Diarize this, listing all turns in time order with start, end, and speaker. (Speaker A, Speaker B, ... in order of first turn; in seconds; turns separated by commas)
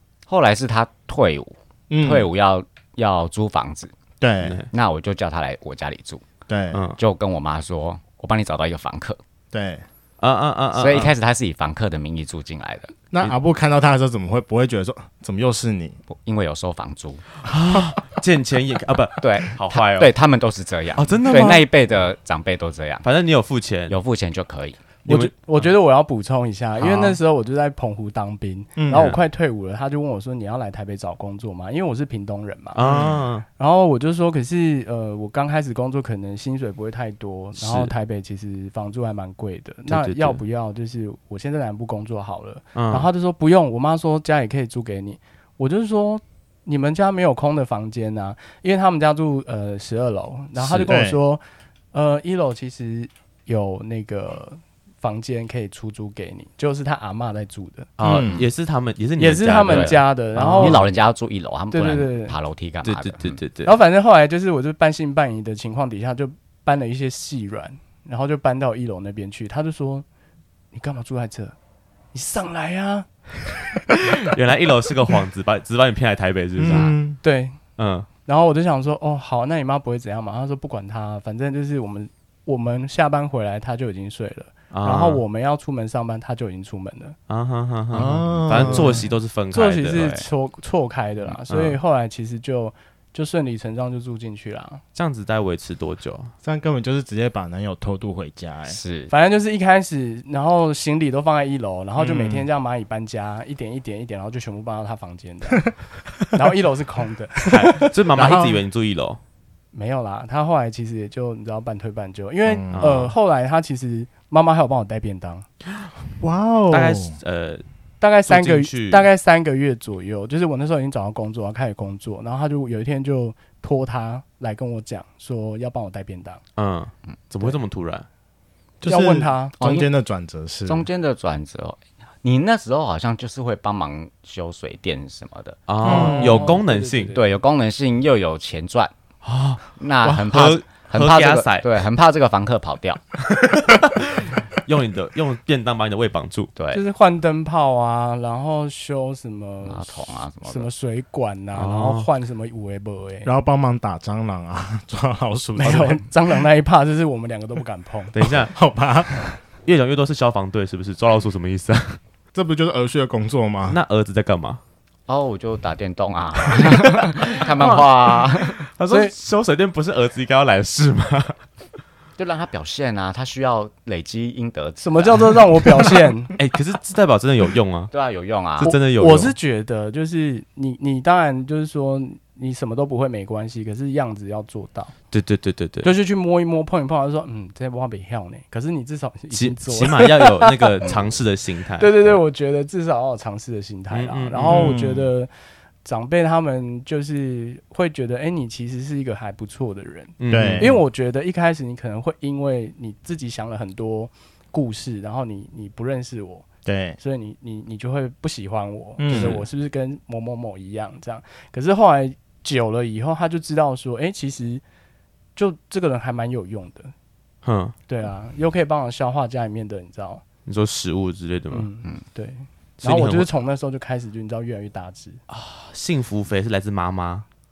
Speaker A: 0.3-3.9, Speaker B: 1.9-2.3, Speaker B: 4.2-4.6, Speaker C: 4.4-4.7, Speaker A: 4.7-6.2, Speaker B: 6.5-6.8, Speaker C: 6.7-7.0, Speaker A: 7.0-9.2, Speaker B: 9.5-9.8, Speaker C: 10.2-11.1, Speaker A: 10.7-12.9, Speaker B: 13.1-16.0, Speaker A: 16.1-17.2, Speaker C: 17.4-20.1, Speaker B: 17.6-18.0, Speaker A: 19.2-23.1, Speaker C: 20.9-21.6, Speaker C: 23.0-24.0, Speaker A: 23.9-24.9, Speaker C: 25.0-25.7, Speaker D: 25.1-32.8, Speaker A: 26.8-27.2, Speaker B: 28.8-29.1, Speaker C: 32.8-33.4, Speaker B: 32.8-33.3, Speaker D: 33.5-51.4, Speaker C: 37.6-37.9, Speaker C: 39.9-40.4, Speaker C: 42.7-43.1, Speaker C: 50.6-50.9, Speaker B: 50.9-51.2, Speaker D: 51.9-57.9, Speaker C: 58.0-60.9, Speaker B: 58.0-58.5, Speaker A: 58.0-58.5, Speaker D: 59.2-60.8, Speaker A: 59.7-60.0, Speaker A: 60.5-63.4, Speaker D: 61.7-62.3, Speaker C: 62.8-63.7, Speaker D: 63.6-70.0, Speaker D: 70.7-71.5, Speaker D: 72.1-73.1, Speaker C: 74.0-77.0, Speaker B: 76.6-77.2, Speaker D: 77.2-77.6, Speaker C: 77.8-78.1, Speaker D: 78.2-87.2, Speaker C: 84.7-85.2, Speaker C: 87.3-90.1, Speaker B: 87.9-89.1, Speaker A: 88.6-89.0, Speaker D: 89.5-94.8, Speaker A: 89.9-90.3, Speaker C: 91.5-91.8, Speaker C: 94.9-96.3, Speaker B: 96.4-98.8, Speaker A: 98.7-99.1, Speaker D: 99.1-105.7, Speaker C: 102.0-102.5, Speaker D: 106.3-107.9, Speaker C: 107.5-109.2, Speaker B: 108.1-108.6, Speaker D: 109.7-115.5, Speaker B: 112.5-113.0, Speaker C: 112.7-113.1, Speaker B: 116.2-117.2, Speaker C: 116.7-117.6, Speaker D: 118.0-126.4, Speaker C: 118.3-119.1, Speaker C: 126.5-128.1, Speaker A: 127.1-127.6, Speaker B: 128.8-130.9, Speaker D: 128.9-129.5, Speaker A: 129.6-129.9, Speaker A: 130.7-136.2, Speaker C: 135.7-137.1, Speaker D: 135.8-137.3, Speaker B: 135.8-136.6, Speaker A: 137.1-138.9, Speaker C: 139.2-141.8, Speaker A: 139.8-143.1, Speaker C: 143.7-146.5, Speaker A: 146.6-146.8, Speaker D: 146.7-153.3, Speaker A: 149.6-150.7, Speaker C: 151.5-152.1, Speaker B: 153.2-156.0, Speaker D: 155.6-158.2, Speaker C: 158.1-158.5, Speaker B: 158.2-159.2, Speaker C: 159.6-162.0, Speaker B: 162.3-163.8, Speaker C: 163.7-164.6, Speaker A: 165.1-168.6, Speaker C: 166.6-171.4, Speaker D: 168.9-169.1, Speaker A: 172.2-175.6, Speaker D: 174.8-176.3, Speaker C: 176.3-177.9, Speaker A: 177.9-178.7, Speaker C: 178.6-179.3, Speaker D: 178.6-184.9, Speaker C: 185.1-185.9, Speaker D: 185.8-190.8, Speaker C: 189.3-192.2, Speaker A: 190.8-191.2, Speaker D: 191.8-195.3, Speaker C: 193.9-194.7, Speaker B: 194.4-195.1, Speaker D: 195.8-206.4, Speaker C: 200.2-200.7, Speaker B: 200.3-200.8, Speaker B: 206.7-207.0, Speaker D: 207.0-214.6, Speaker B: 209.0-209.4, Speaker C: 209.1-209.4, Speaker D: 215.3-216.9, Speaker C: 217.4-217.7, Speaker D: 217.9-220.2, Speaker C: 220.4-221.7, Speaker D: 221.5-225.2, Speaker C: 222.8-223.3, Speaker C: 225.3-227.2